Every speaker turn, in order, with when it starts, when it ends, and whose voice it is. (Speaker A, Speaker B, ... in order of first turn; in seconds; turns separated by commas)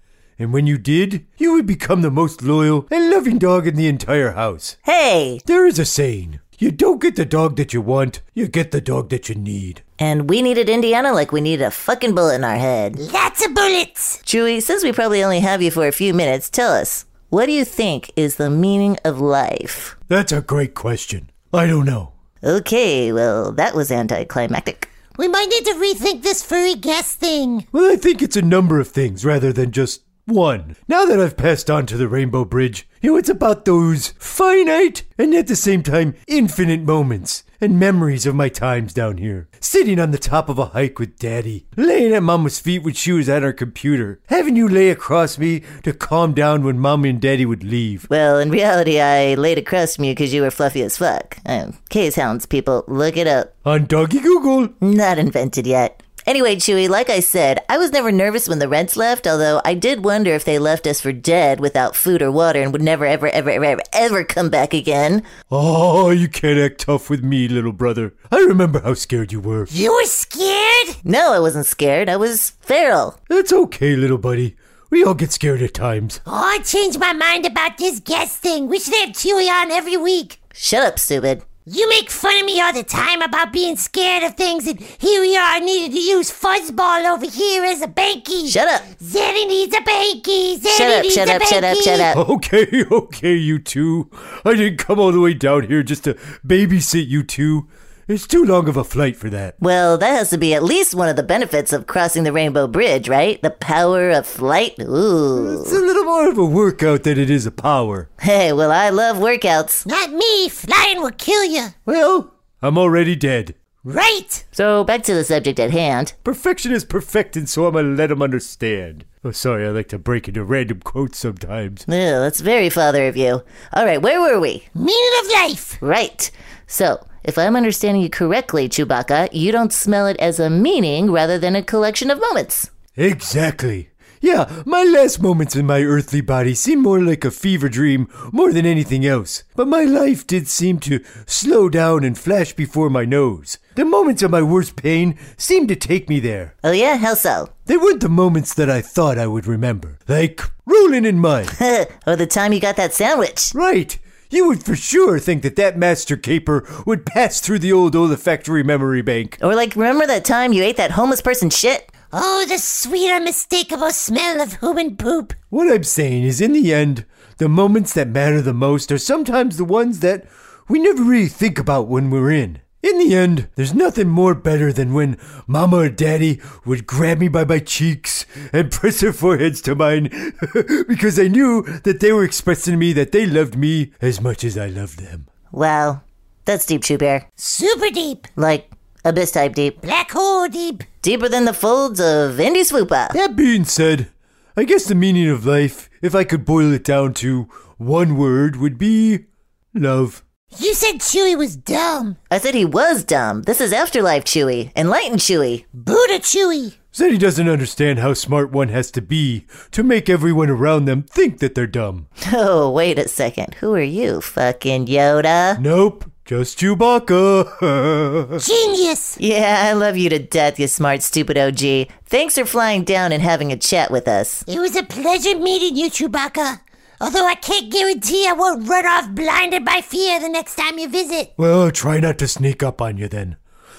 Speaker A: 0.4-4.8, Speaker B: 4.8-5.4, Speaker A: 5.5-9.8, Speaker B: 10.0-13.0, Speaker C: 13.0-14.2, Speaker B: 14.2-19.9, Speaker A: 20.1-22.1, Speaker B: 22.4-24.9, Speaker C: 25.2-27.7, Speaker A: 27.7-48.1, Speaker B: 48.1-53.5, Speaker A: 53.6-54.7, Speaker B: 54.8-65.3, Speaker A: 65.5-69.7, Speaker C: 69.7-71.0, Speaker B: 71.0-73.2, Speaker A: 73.3-76.2, Speaker C: 76.2-80.4, Speaker B: 80.5-81.4, Speaker C: 81.7-92.1, Speaker B: 88.5-88.8, Speaker B: 90.7-92.2, Speaker A: 92.1-99.5, Speaker B: 99.6-105.8, Speaker A: 105.3-108.1, Speaker B: 108.2-109.8, Speaker C: 109.8-111.7, Speaker A: 111.9-113.5, Speaker C: 113.8-114.4, Speaker B: 114.5-116.1, Speaker A: 116.2-121.8, Speaker B: 121.9-124.7, Speaker C: 124.7-125.8, Speaker B: 125.8-132.7, Speaker A: 132.9-146.5, Speaker B: 146.6-147.5, Speaker A: 147.7-151.5, Speaker B: 151.5-153.5, Speaker A: 153.5-159.4, Speaker B: 159.4-161.9, Speaker C: 162.1-165.3, Speaker A: 165.5-185.2, Speaker B: 185.5-187.2, Speaker C: 187.4-188.3, Speaker B: 188.3-189.8, Speaker C: 189.8-190.8, Speaker B: 191.0-193.2, Speaker A: 193.1-199.2, Speaker A: 199.7-200.2, Speaker C: 200.5-202.2, Speaker B: 202.3-205.6, Speaker C: 205.7-206.7, Speaker A: 206.9-212.1, Speaker B: 212.2-215.6, Speaker A: 215.6-218.4, Speaker C: 218.4-219.2, Speaker B: 219.2-224.4, Speaker C: 224.5-231.3, Speaker A: 231.4-233.3